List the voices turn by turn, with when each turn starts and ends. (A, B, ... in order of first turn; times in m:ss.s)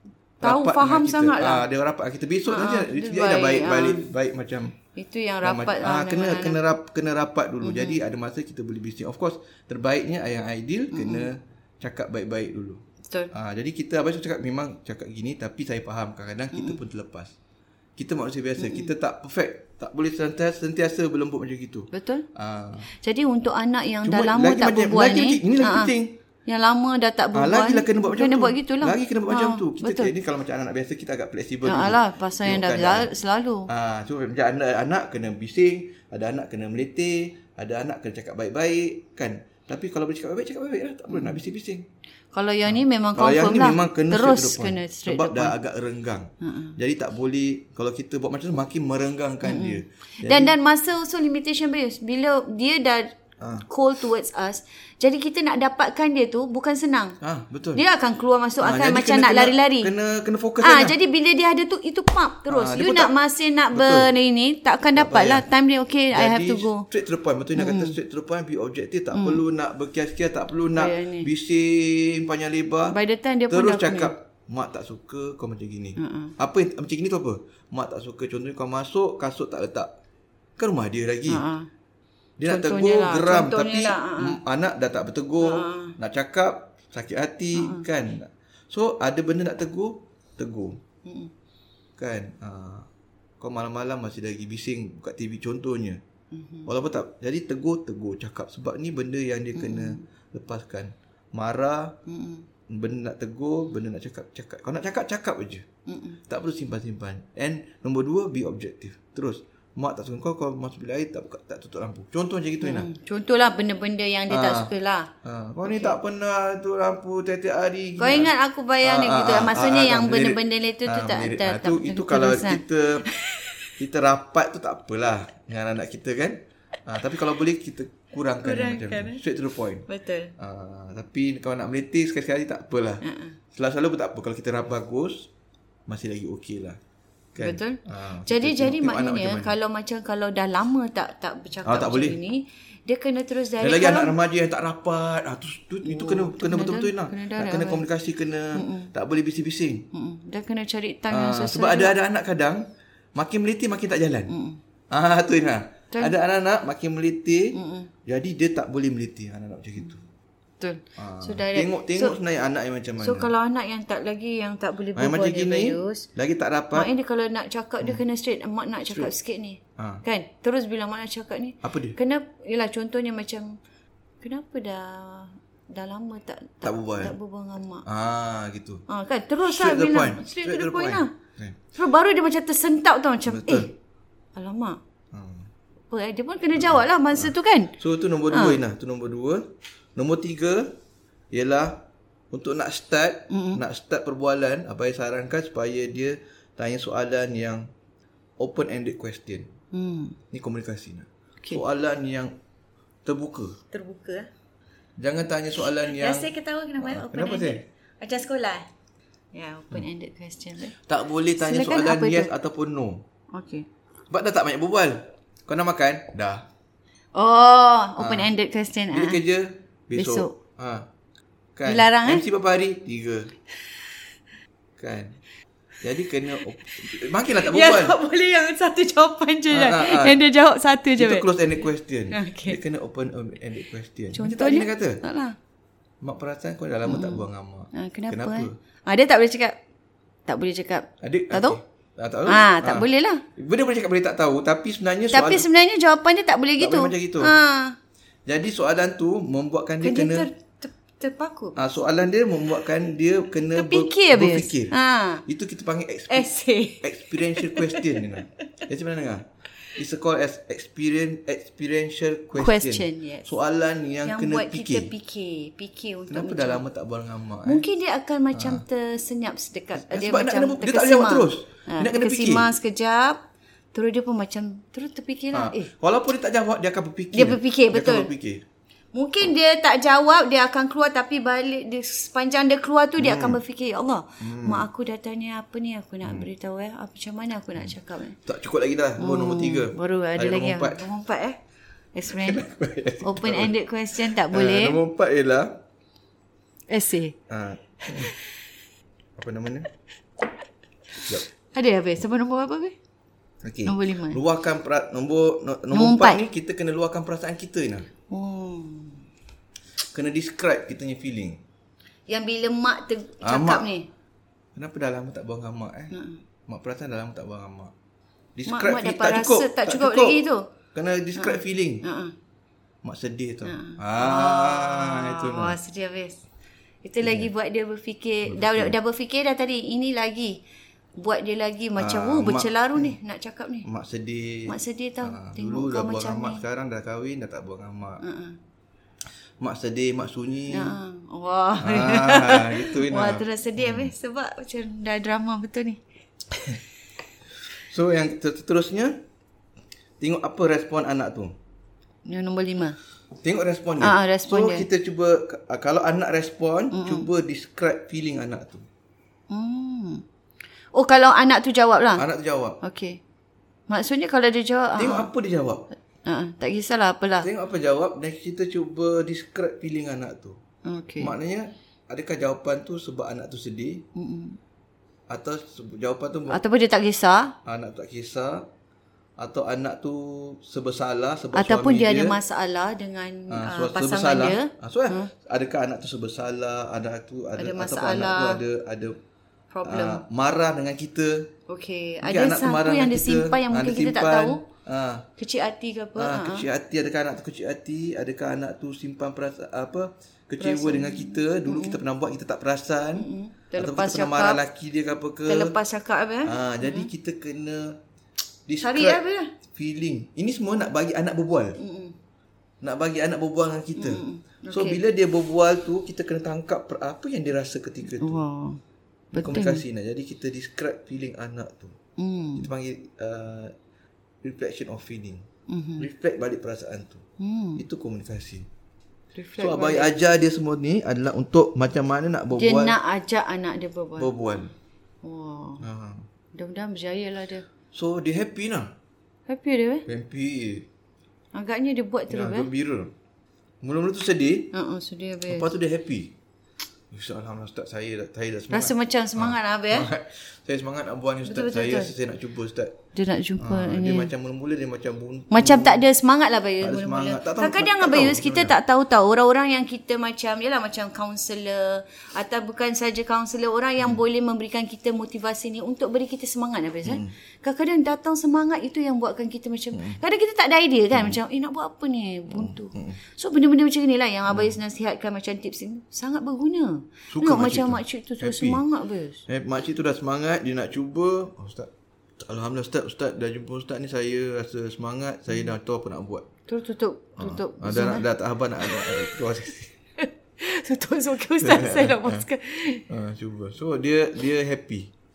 0:00.4-0:04.8 A
0:00.4-0:01.6 B
0:02.5-0:04.1 B
0:04.9-0:06.6 B
0:05.4-0:17.3 A
0:07.6-0:08.0 B
0:10.9-0:11.3 B
0:16.5-0:16.8 B
0:18.0-0:22.9 A
0:18.6-0:18.9 B
0:21.9-0:22.2 B
0:22.9-0:25.9 B
0:24.0-0:26.2 A
0:26.4-0:30.1 B
0:27.3-0:33.1 A
0:31.6-0:33.7 B
0:33.7-0:41.8 A
0:41.1-0:41.4 B
0:42.3-0:45.5 B
0:42.6-0:50.5 A
0:46.4-0:46.8 B
0:49.4-0:53.1 B
0:53.4-0:53.6 A
0:53.6-0:57.2 B
0:57.2-0:57.8 A
0:57.7-0:59.9 B
0:58.6-1:01.0 A
1:00.6-1:06.9 B
1:02.5-1:03.1 A
1:03.7-1:04.1 A
1:04.9-1:05.5 A
1:06.1-1:13.0 A
1:07.6-1:08.0 B
1:09.1-1:09.4 B
1:10.7-1:11.3 B
1:12.9-1:14.1 B
1:13.5-1:19.9 A
1:16.0-1:16.3 B
1:20.6-1:21.4 A
1:21.3-1:21.7 B
1:22.4-1:30.8 A
1:22.4-1:24.4 B
1:25.4-1:26.0 B
1:27.5-1:27.8 B
1:31.0-1:31.3 B
1:32.0-1:32.9 A
1:33.4-1:36.0 A
1:36.3-1:36.7 B
1:36.7-1:42.0 A
1:39.5-1:40.0 B
1:42.1-1:42.5 B
1:42.7-1:45.6 A
1:45.9-1:46.2 B
1:46.3-1:52.9 A
1:52.6-1:55.1 B
1:54.3-1:54.7 A
1:55.2-2:03.1 A
1:55.6-1:56.0 B
1:58.0-2:03.7 B
2:03.8-2:09.8 A
2:08.4-2:09.2 B
2:09.9-2:10.3 B
2:10.4-2:13.0 A
2:13.0-2:13.4 B
2:13.5-2:15.3 A
2:15.9-2:16.8 A
2:17.3-2:19.5 A
2:17.4-2:24.2 B
2:21.6-2:22.2 A
2:23.6-2:29.9 A
2:25.8-2:27.8 B
2:28.5-2:28.9 B
2:29.9-2:31.9 B
2:31.1-2:32.6 A
2:33.2-2:34.3 A
2:34.3-2:34.6 B
2:34.9-2:37.5 A
2:37.5-2:37.9 B
2:38.0-2:40.0 A
2:40.6-2:42.2 B
2:41.0-2:43.3 A
2:43.0-2:46.1 B
2:44.9-2:46.9 A
2:46.7-2:53.6 B
2:49.8-2:50.0 A
2:51.6-2:52.0 A
2:54.2-2:57.8 B
2:56.6-2:57.1 A
2:57.8-2:58.8 A
2:58.9-3:01.1 B
2:59.4-3:01.6 A
3:01.7-3:03.7 B
3:03.2-3:03.7 A
3:04.3-3:04.8 B
3:05.1-3:05.5 A
3:05.9-3:07.7 B
3:06.6-3:10.8 A
3:08.3-3:08.6 B
3:11.3-3:17.7 A
3:13.3-3:13.6 B
3:18.4-3:19.5 A
3:19.7-3:20.2 B
3:20.3-3:22.3 A
3:23.0-3:23.6 A
3:23.7-3:24.3 B
3:25.0-3:27.6 A
3:25.7-3:28.7 B
3:29.3-3:30.8 B
3:30.8-3:33.0 A
3:31.4-3:32.3 B
3:33.3-3:33.6 B
3:34.1-3:36.5 A
3:37.1-3:39.2 B
3:38.0-3:38.3 A
3:38.9-3:40.9 A
3:39.9-3:40.4 B
3:41.6-3:43.3 A
3:41.7-3:42.2 B
3:44.8-3:45.2 A
3:45.8-3:48.0 A
3:47.2-3:51.3 B
3:49.5-3:50.2 A
3:51.0-3:55.0 A
3:52.1-3:52.6 B
3:54.1-3:55.4 B
3:56.0-3:58.5 A
3:56.8-3:59.6 B
4:00.3-4:01.6 B
4:01.0-4:05.5 A
4:02.2-4:03.2 B
4:05.1-4:07.8 B
4:06.6-4:07.3 A
4:08.3-4:10.3 A
4:09.8-4:11.6 B
4:11.6-4:16.3 A
4:13.5-4:15.2 B
4:16.1-4:18.2 B
4:16.8-4:24.9 A
4:22.4-4:23.3 B
4:24.0-4:26.6 B
4:26.1-4:27.6 A
4:27.4-4:33.2 B
4:28.3-4:28.6 A
4:29.8-4:32.5 A
4:33.7-4:35.7 B
4:35.3-4:38.4 A
4:37.1-4:38.1 B
4:38.9-4:48.2 B
4:43.0-4:43.4 A
4:44.2-4:44.7 A
4:48.2-4:50.8 A
4:49.0-4:51.4 B
4:51.9-4:52.4 B
4:52.1-4:53.5 A
4:53.0-4:54.8 B
4:54.2-4:55.6 A
4:56.7-4:57.1 B
4:57.3-4:58.1 A
4:57.8-4:58.2 B
4:59.2-4:59.7 A
5:01.5-5:02.7 B
5:03.4-5:07.9 A
5:03.6-5:04.2 B
5:05.7-5:06.2 B
5:08.1-5:09.0 B
5:09.9-5:11.4 A
5:12.1-5:13.9 B
5:13.2-5:13.7 A
5:14.5-5:15.9 A
5:15.9-5:16.2 B
5:16.5-5:17.7 A
5:18.4-5:20.2 A
5:18.5-5:20.4 B
5:20.7-5:21.8 A
5:21.2-5:22.1 B
5:22.8-5:25.6 A
5:23.4-5:26.2 B
5:26.8-5:30.4 B
5:27.0-5:27.3 A
5:28.2-5:28.8 A
5:31.0-5:33.7 B
5:31.8-5:33.0 A
5:33.6-5:38.0 A
5:34.5-5:36.4 B
5:38.0-5:38.4 B
5:39.4-5:40.8 A
5:40.5-5:45.8 B
5:41.6-5:43.9 A
5:46.3-5:46.6 B
5:47.6-5:49.0 A
5:50.0-5:51.3 A
5:52.0-5:52.8 B
5:53.2-5:58.6 A
5:53.8-5:54.7 B
5:56.7-5:57.1 B
5:59.3-6:00.0 B
6:00.7-6:02.0 B
6:02.0-6:02.6 A
6:02.6-6:03.0 B
6:03.7-6:05.1 B
6:04.8-6:05.6 A
6:06.0-6:07.3 B
6:07.2-6:10.4 A
6:10.6-6:11.2 B
6:11.0-6:13.8 A
6:13.9-6:14.4 B
6:15.1-6:16.4 A
6:16.3-6:17.3 B
6:17.4-6:18.4 A
6:19.2-6:22.2 A
6:21.3-6:25.1 B
6:23.3-6:29.0 A
6:27.4-6:28.4 B
6:29.5-6:30.0 B
6:29.6-6:31.3 A
6:31.5-6:34.4 B
6:32.0-6:35.1 A
6:35.2-6:36.5 B
6:36.0-6:45.6 A
6:40.4-6:41.8 B
6:43.0-6:44.4 B
6:45.3-6:46.9 B
6:46.2-6:47.8 A
6:48.5-6:51.6 A
6:48.6-6:49.3 B
6:51.6-6:51.9 B
6:52.6-6:58.2 A
6:53.8-6:54.8 B
6:58.0-6:58.6 B
6:59.1-6:59.6 B
6:59.2-7:01.8 A
7:02.0-7:02.5 B
7:02.4-7:03.5 A
7:04.2-7:05.2 A
7:05.5-7:05.9 B
7:05.8-7:07.0 A
7:07.2-7:07.6 B
7:07.6-7:08.5 A
7:09.1-7:09.9 B
7:09.4-7:12.8 A
7:12.3-7:14.1 B
7:14.0-7:14.5 A
7:15.0-7:15.6 B
7:15.6-7:16.0 A
7:16.3-7:17.4 B
7:17.7-7:18.7 A
7:19.3-7:19.8 B
7:19.8-7:20.7 A
7:21.3-7:22.5 B
7:22.1-7:22.9 A
7:23.6-7:24.5 A
7:24.5-7:25.5 B
7:25.3-7:26.1 A
7:26.9-7:32.8 A
7:28.5-7:29.9 B
7:31.2-7:31.9 B
7:32.9-7:34.1 B
7:33.4-7:35.8 A
7:35.3-7:59.2 B
7:36.6-7:38.5 A
7:46.8-7:47.1 A
7:49.7-7:50.0 A
7:50.9-7:51.2 A
7:52.3-7:53.0 A
7:54.3-7:54.6 A
7:57.1-7:58.6 A
7:59.3-8:06.3 A
8:06.5-8:08.1 B
8:07.2-8:09.7 A
8:08.6-8:09.2 B
8:10.0-8:12.9 B
8:11.4-8:12.3 A
8:12.9-8:14.9 A